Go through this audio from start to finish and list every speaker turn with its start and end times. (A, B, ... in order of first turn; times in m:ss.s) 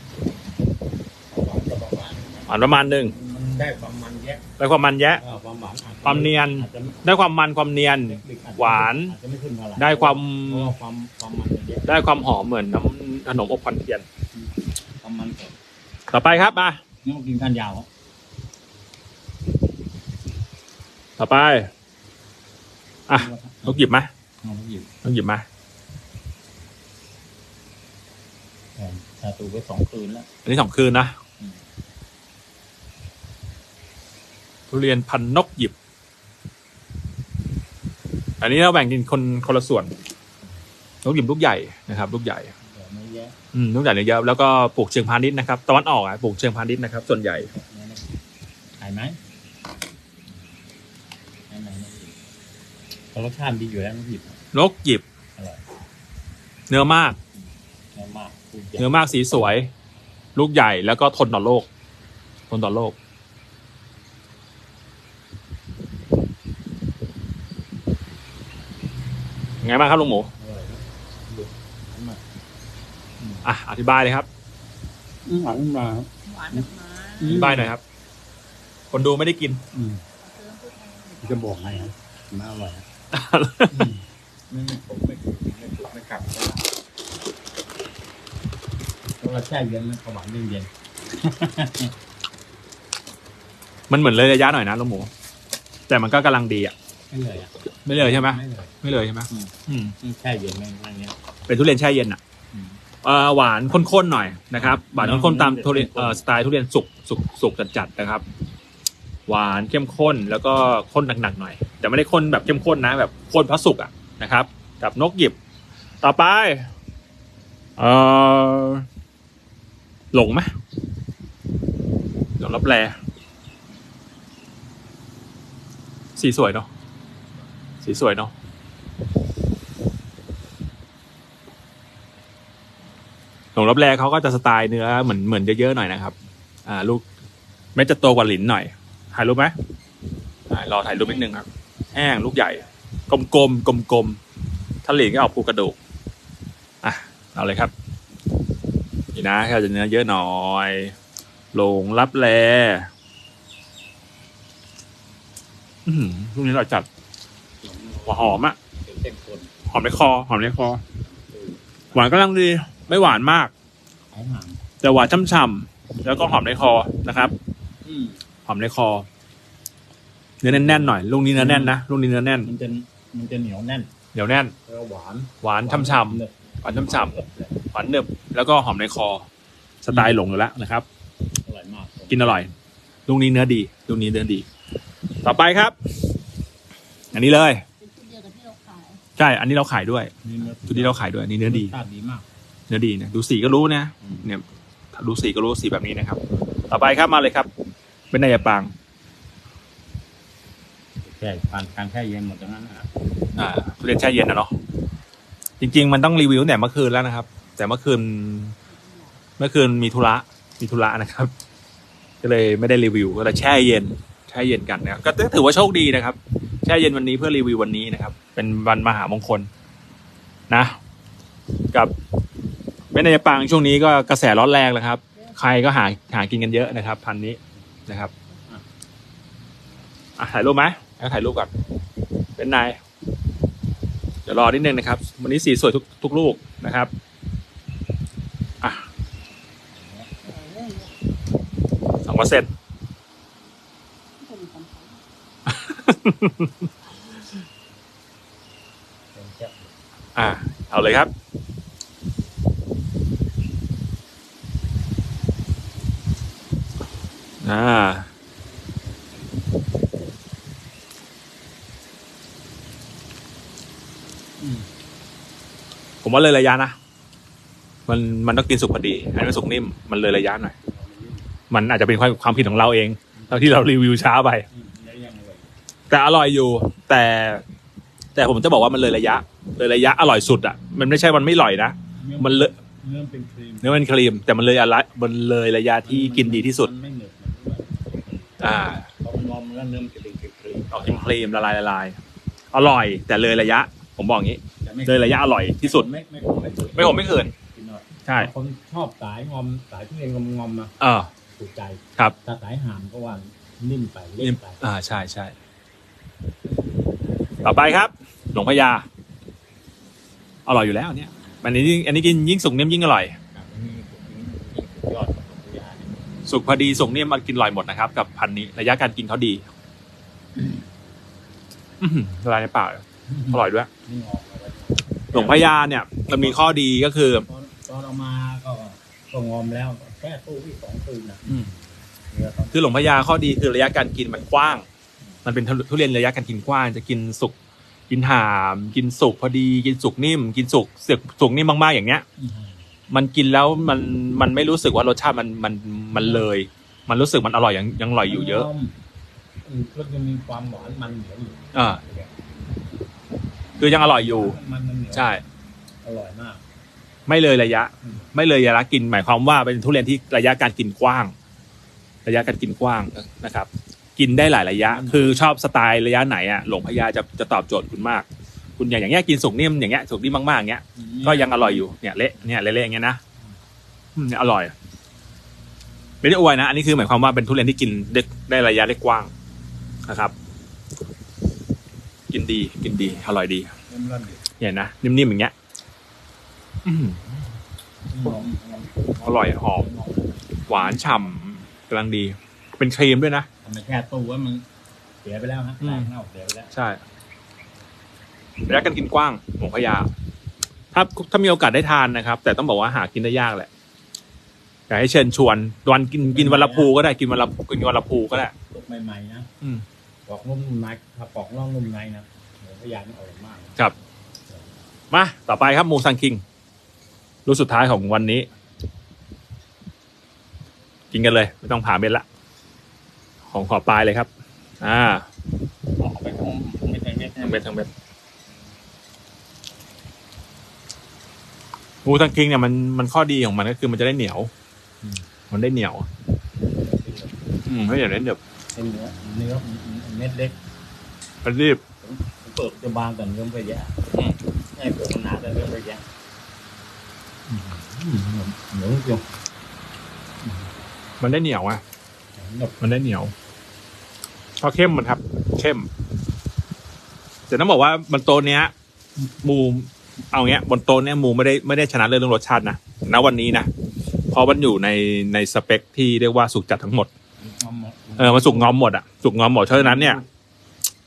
0:01.3-0:02.5 A
0:02.5-0:03.1 B
0:03.0-0:04.5 A
0:04.6-0:05.2 B
0:05.1-0:07.0 A
0:06.0-0:09.2 B
0:08.0-0:11.9 A
0:09.8-0:10.7 B
0:11.9-0:14.0 B
0:14.4-0:15.5 A
0:16.1-0:16.8 B
0:17.0-0:17.9 A
0:21.2-0:21.7 B
0:23.1-0:24.1 B
0:23.2-0:23.8 A
0:24.4-0:24.9 A
0:25.0-0:25.4 B
0:28.8-0:30.3 A
0:30.4-0:31.2 B
0:34.7-0:35.7 B
0:38.4-0:39.9 B
0:41.0-0:42.5 B
0:42.6-0:43.4 A
0:43.5-0:47.5 B
0:47.5-0:48.2 A
0:48.8-0:49.2 A
0:51.5-0:52.2 A
0:53.1-0:54.4 A
0:54.5-0:55.0 B
0:55.4-0:55.6 A
0:56.7-0:57.2 B
0:58.0-0:59.5 A
0:58.8-0:59.7 B
1:00.4-1:01.7 B
1:02.5-1:03.0 B
1:09.6-1:10.3 B
1:10.4-1:12.2 A
1:13.2-1:13.4 A
1:13.4-1:14.3 B
1:15.3-1:16.7 A
1:16.3-1:17.5 C
1:17.2-1:17.7 A
1:17.2-1:17.8 B
1:18.9-1:19.6 B
1:19.7-1:20.0 A
1:20.2-1:21.9 C
1:21.2-1:22.8 A
1:23.1-1:23.9 B
1:23.7-1:26.6 A
1:29.2-1:31.9 A
1:33.9-1:35.1 B
1:35.9-1:36.7 B
1:37.1-1:38.7 A
1:37.8-1:40.0 B
1:39.3-1:41.2 A
1:41.5-1:42.2 B
1:42.5-1:42.8 A
1:43.0-1:48.2 B
1:45.0-1:46.2 A
1:49.3-1:55.4 B
1:56.0-1:56.7 B
1:57.8-1:58.9 B
2:00.1-2:00.5 B
2:02.4-2:03.0 B
2:06.2-2:06.7 B
2:07.8-2:08.3 B
2:13.6-2:16.2 B
2:16.7-2:17.0 B
2:17.8-2:19.5 B
2:20.5-2:24.2 B
2:24.8-2:25.8 B
2:26.8-2:27.7 B
2:29.1-2:30.9 B
2:31.5-2:32.9 B
2:35.9-2:36.9 B
2:37.6-2:39.6 A
2:38.1-2:38.6 B
2:39.7-2:40.8 B
2:41.0-2:42.0 A
2:41.9-2:43.5 B
2:44.1-2:44.6 A
2:44.8-2:47.4 B
2:47.8-2:48.2 A
2:48.5-2:49.1 B
2:50.4-2:52.5 B
2:50.5-2:51.8 A
2:52.4-2:53.9 A
2:54.1-2:54.5 B
2:54.7-2:57.6 A
2:55.4-2:57.1 B
2:57.7-2:59.3 B
2:59.8-3:00.9 B
3:01.4-3:02.5 A
3:02.1-3:02.5 B
3:03.1-3:04.5 B
3:05.2-3:05.8 B
3:07.1-3:07.6 B
3:07.8-3:09.0 C
3:09.2-3:11.7 B
3:10.2-3:12.3 A
3:12.7-3:17.5 B
3:14.0-3:14.3 A
3:18.1-3:18.7 B
3:21.0-3:22.9 A
3:23.4-3:24.5 B
3:25.6-3:28.6 B
3:28.7-3:29.2 C
3:29.4-3:31.3 B
3:32.2-3:39.5 B
3:40.5-3:40.8 B
3:42.9-3:48.1 B
3:50.2-3:51.5 B
3:52.4-3:52.8 B
3:54.3-3:56.9 B
3:59.7-4:00.2 A
4:00.2-4:00.9 C
4:02.0-4:02.5 B
4:04.2-4:05.0 C
4:05.5-4:06.7 B
4:09.2-4:09.7 A
4:10.2-4:11.1 B
4:17.4-4:18.1 B
4:24.4-4:24.7 A
4:26.0-4:26.8 B
4:27.9-4:30.5 B
4:30.6-4:31.2 A
4:31.5-4:34.5 B
4:33.2-4:33.6 A
4:34.5-4:35.5 A
4:35.9-4:37.4 B
4:38.2-4:42.5 B
4:42.0-4:43.8 A
4:43.6-4:46.7 B
4:45.8-4:51.1 A
4:48.4-4:48.8 B
4:50.7-4:52.0 B
4:52.5-4:55.9 B
4:54.6-5:00.7 A
4:56.8-4:57.3 B
4:58.1-4:58.3 B
5:00.8-5:01.1 B
5:01.4-5:04.6 A
5:04.2-5:05.4 B
5:07.4-5:08.8 B
5:10.5-5:13.2 B
5:13.3-5:16.0 A
5:16.3-5:19.4 B
5:21.8-5:23.7 B
5:23.1-5:25.5 A
5:25.1-5:27.2 B
5:26.1-5:26.5 A
5:27.3-5:31.6 A
5:31.3-5:31.5 B
5:32.1-5:32.8 A
5:32.5-5:34.7 B
5:35.2-5:37.3 B
5:37.9-5:42.0 B
5:42.2-5:42.6 A
5:42.9-5:48.5 B
5:46.0-5:46.3 A
5:48.1-5:48.8 A
5:49.4-5:52.1 A
5:51.5-5:51.8 B
5:53.6-5:55.1 A
5:53.6-5:54.4 B
5:54.9-5:55.2 B
5:55.8-5:56.4 A
5:57.1-6:01.1 B
6:02.0-6:08.1 B
6:04.7-6:05.2 A
6:08.6-6:13.0 B
6:10.8-6:11.6 A
6:14.0-6:14.5 B
6:16.0-6:19.1 B
6:19.9-6:20.1 B
6:22.1-6:23.5 B
6:23.7-6:24.2 A
6:24.4-6:25.3 B
6:26.6-6:27.3 B
6:27.9-6:31.1 A
6:29.0-6:29.6 B
6:30.5-6:33.3 B
6:33.4-6:34.4 A
6:35.0-6:36.5 A
6:35.6-6:35.9 B
6:36.5-6:36.8 B
6:38.5-6:39.9 B
6:40.7-6:43.5 B
6:44.7-6:48.3 B
6:46.1-6:46.7 A
6:48.5-6:49.3 A
6:50.1-6:53.6 A
6:54.9-6:56.2 B
6:57.3-6:58.3 B
7:00.9-7:02.0 B
7:03.3-7:04.1 B
7:04.6-7:05.1 B
7:05.8-7:07.5 A
7:07.2-7:07.7 B
7:11.8-7:14.3 B
7:15.3-7:15.9 B
7:16.4-7:17.4 A
7:17.4-7:18.2 B
7:18.6-7:20.4 A
7:21.2-7:21.6 B
7:21.8-7:23.9 A
7:24.5-7:25.8 A
7:27.3-7:29.0 A
7:30.2-7:30.5 A
7:31.0-7:31.6 B
7:32.2-7:32.6 A
7:32.6-7:33.1 B
7:34.4-7:35.7 B
7:37.3-7:38.5 B
7:39.2-7:43.5 B
7:44.1-7:46.9 B
7:47.2-7:48.5 A
7:48.0-7:50.0 B
7:49.6-7:50.0 A